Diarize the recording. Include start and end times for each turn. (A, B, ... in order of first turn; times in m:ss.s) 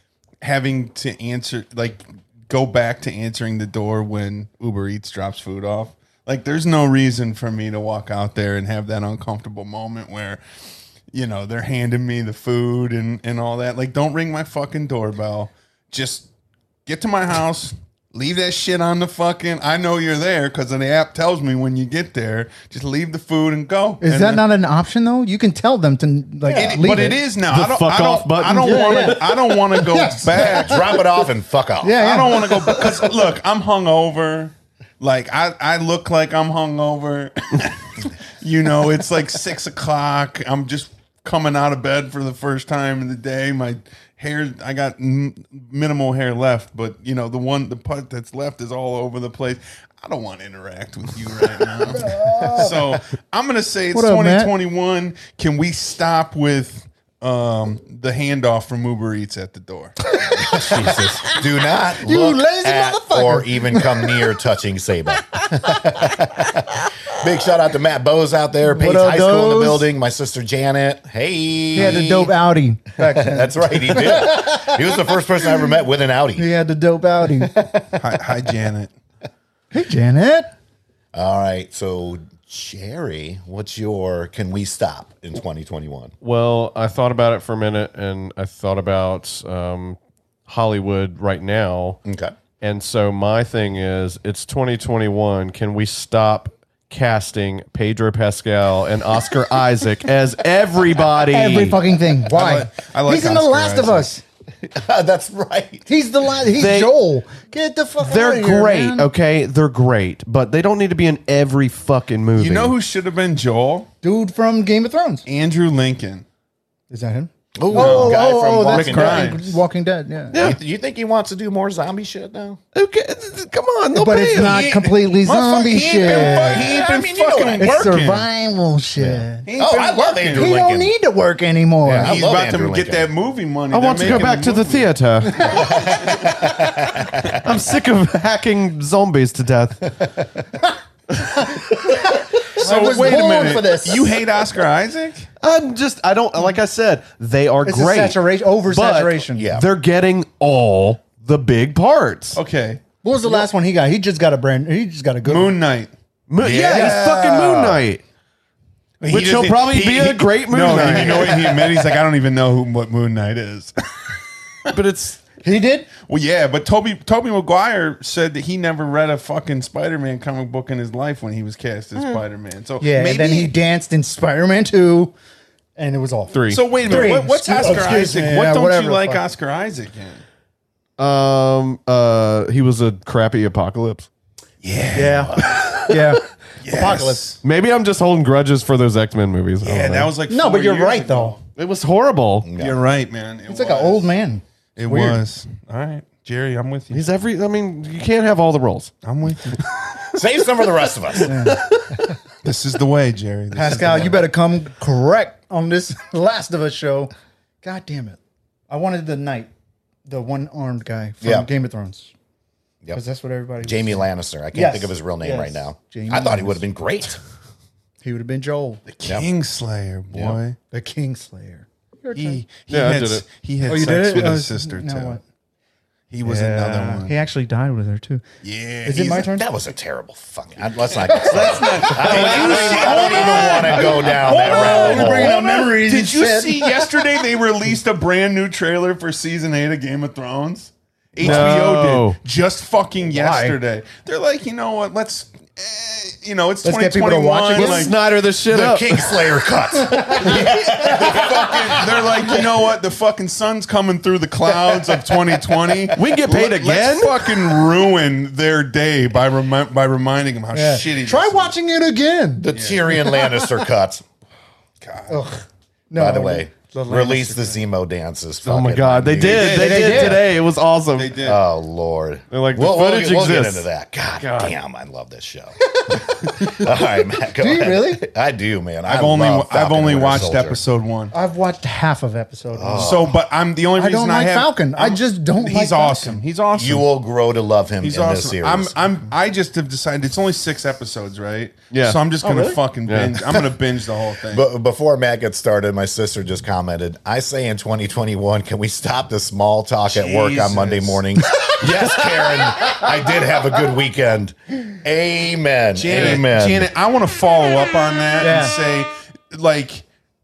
0:00.4-0:10.4 A
0:11.1-0:16.3 A
0:16.8-0:24.4 A
0:24.0-0:27.2 B
0:26.4-0:26.8 C
0:26.5-0:31.0 A
0:27.5-0:29.9 D
0:28.6-0:29.2 B
0:29.9-0:30.7 B
0:30.4-0:32.3 C
0:31.8-0:32.8 B
0:32.0-1:00.0 A
0:51.9-0:52.8 B
0:53.9-0:54.5 B
1:00.1-1:01.4 B
1:00.4-1:12.3 C
1:00.6-1:01.2 D
1:02.0-1:04.3 B
1:08.6-1:09.9 B
1:11.7-1:14.8 B
1:13.0-1:16.5 C
1:16.4-1:17.7 B
1:18.0-1:18.9 A
1:19.7-1:20.5 B
1:21.1-1:26.1 C
1:26.2-1:32.0 D
1:32.0-1:32.3 C
1:32.6-1:41.8 D
1:41.2-1:44.2 B
1:42.3-1:44.1 A
1:44.7-1:45.9 C
1:45.9-1:49.1 B
1:46.6-1:46.9 D
1:48.0-1:52.7 D
1:52.3-1:53.9 A
1:54.0-1:55.2 B
1:55.2-1:56.2 A
1:56.9-2:00.4 B
1:57.6-1:59.4 C
1:57.7-1:59.6 A
2:00.3-2:00.6 D
2:00.3-2:02.6 C
2:02.7-2:04.8 D
2:03.9-2:06.7 B
2:04.5-2:08.3 A
2:05.2-2:07.9 C
2:07.6-2:09.5 B
2:09.0-2:10.9 C
2:09.4-2:10.5 A
2:10.3-2:12.1 B
2:11.8-2:13.1 C
2:12.0-2:16.2 A
2:13.7-2:16.0 D
2:15.5-2:17.4 C
2:17.3-2:20.1 D
2:22.6-2:25.3 A
2:22.6-2:24.1 B
2:25.4-2:32.4 D
2:27.6-2:29.5 B
2:29.4-2:29.7 C
2:32.3-2:32.8 A
2:33.0-2:35.6 B
2:35.2-2:35.9 A
2:36.3-2:38.0 D
2:36.4-2:37.0 C
2:36.6-2:37.1 B
2:36.7-2:37.8 A
2:39.0-2:44.1 A
2:39.0-2:41.9 D
2:44.7-2:45.3 D
2:45.4-2:45.9 B
2:46.0-2:53.5 A
2:52.8-2:55.1 B
2:55.8-2:59.2 B
2:56.3-2:57.0 D
2:56.5-3:00.2 A
3:01.0-3:04.1 D
3:04.6-3:05.9 A
3:04.9-3:07.3 B
3:05.0-3:05.4 C
3:06.6-3:07.4 A
3:07.4-3:10.1 D
3:09.6-3:11.4 A
3:10.3-3:11.4 B
3:11.6-3:12.5 D
3:12.4-3:12.8 C
3:12.6-3:14.1 A
3:13.5-3:15.2 B
3:14.8-3:17.1 A
3:16.9-3:18.9 D
3:19.0-3:19.7 A
3:20.1-3:21.4 C
3:21.2-3:21.6 B
3:21.5-3:22.0 D
3:22.4-3:24.3 A
3:23.5-3:27.1 B
3:27.6-3:28.2 B
3:28.7-3:29.5 B
3:30.0-3:32.1 B
3:31.2-3:31.5 C
3:32.9-3:36.6 B
3:33.6-3:37.2 C
3:38.0-3:38.8 B
3:38.9-3:40.6 A
3:40.1-3:40.4 C
3:40.7-3:42.4 B
3:42.1-3:45.2 A
3:42.7-3:43.2 D
3:43.6-3:45.2 B
3:46.1-3:47.2 A
3:46.2-3:48.2 B
3:48.4-3:49.2 A
3:48.8-3:49.5 B
3:49.0-3:55.4 C
3:51.1-4:08.0 A
3:51.1-3:57.1 B
4:01.2-4:02.2 D
4:03.1-4:03.6 B
4:06.6-4:07.9 B
4:07.5-4:09.3 D
4:08.4-4:12.4 C
4:09.8-4:10.4 B
4:10.2-4:21.5 A
4:15.6-4:15.9 C
4:15.9-4:17.3 D
4:20.5-4:23.4 B
4:22.4-4:24.0 C
4:22.5-4:22.8 A
4:24.8-4:25.2 A
4:25.1-4:27.6 B
4:25.9-4:30.1 C
4:28.4-4:31.2 D
4:29.2-4:30.2 A
4:29.4-4:30.2 B
4:31.0-4:31.4 A
4:31.2-4:40.6 C
4:32.3-4:33.6 D
4:34.2-4:34.5 D
4:35.7-4:36.6 B
4:37.4-4:38.0 B
4:38.8-4:41.1 A
4:41.1-4:43.0 B
4:42.5-4:43.1 C
4:42.8-4:46.9 A
4:43.8-4:46.2 B
4:46.5-4:48.7 C
4:47.8-4:54.4 A
4:51.7-4:53.4 D
4:54.3-5:06.7 C
4:59.9-5:01.0 A
5:05.7-5:09.8 A
5:08.2-5:08.5 B